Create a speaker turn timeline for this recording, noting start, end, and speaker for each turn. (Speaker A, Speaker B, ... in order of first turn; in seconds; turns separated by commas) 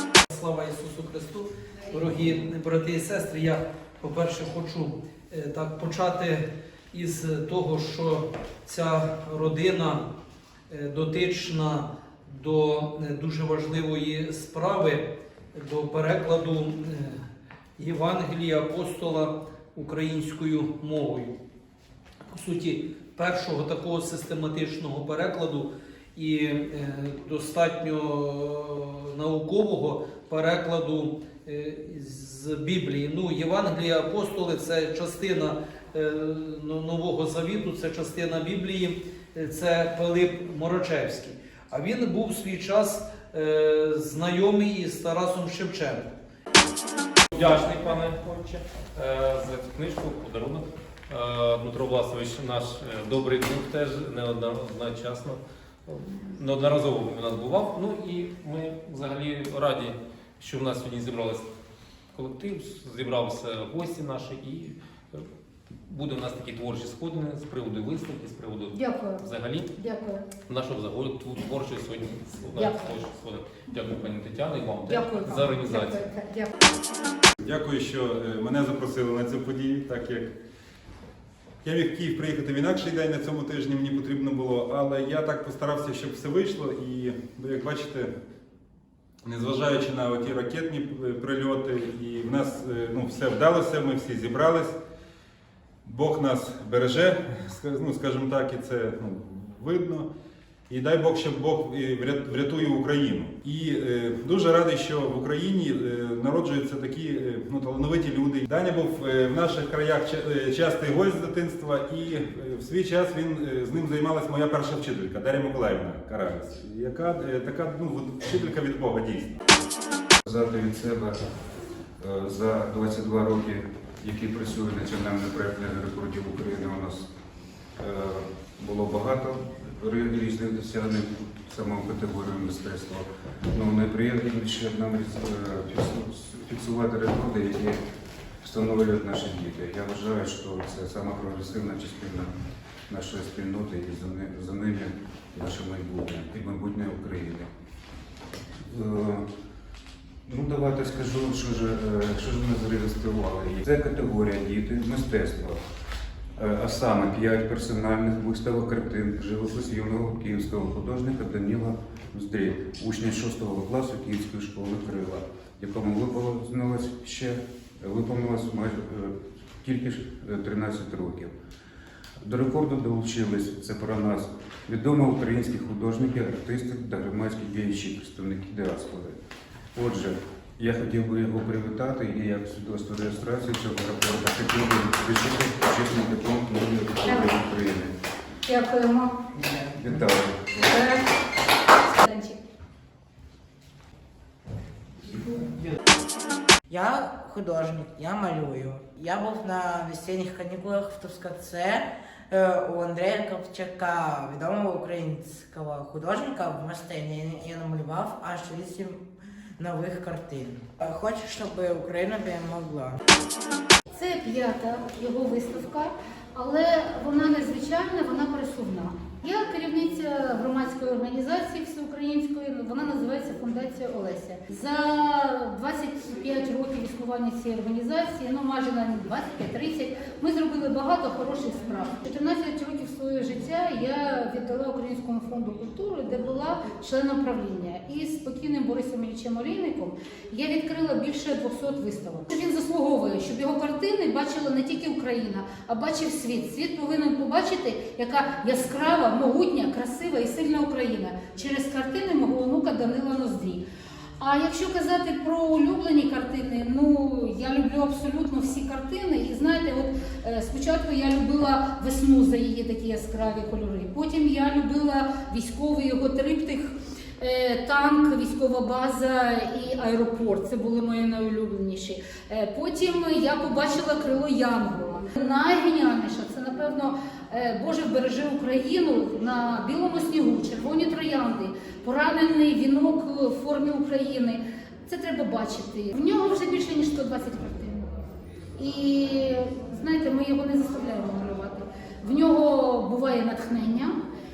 Speaker A: 0.3-10.1, Speaker A: 10.7-17.2, Speaker A: 17.8-21.4, Speaker A: 22.3-46.1, Speaker B: 47.3-61.5, Speaker B: 62.1-65.2, Speaker B: 65.8-69.7, Speaker C: 68.7-69.2, Speaker C: 69.8-70.3, Speaker B: 70.5-76.0, Speaker C: 72.5-73.0, Speaker C: 74.9-76.5, Speaker D: 77.4-80.3, Speaker D: 81.6-88.1, Speaker D: 89.2-94.8, Speaker D: 95.8-100.1, Speaker D: 100.7-119.3, Speaker E: 120.2-121.2, Speaker E: 122.0-127.1, Speaker E: 127.8-137.8, Speaker E: 138.4-142.3, Speaker E: 142.9-147.5, Speaker E: 148.7-149.2, Speaker E: 150.2-155.6, Speaker E: 156.4-171.3, Speaker E: 172.2-179.2, Speaker E: 179.7-187.9, Speaker C: 188.4-189.2, Speaker E: 189.7-190.8, Speaker C: 190.7-191.1, Speaker C: 191.8-192.4, Speaker F: 196.7-209.0, Speaker F: 209.6-213.0, Speaker C: 213.9-253.6, Speaker C: 254.2-287.9, Speaker C: 288.6-294.0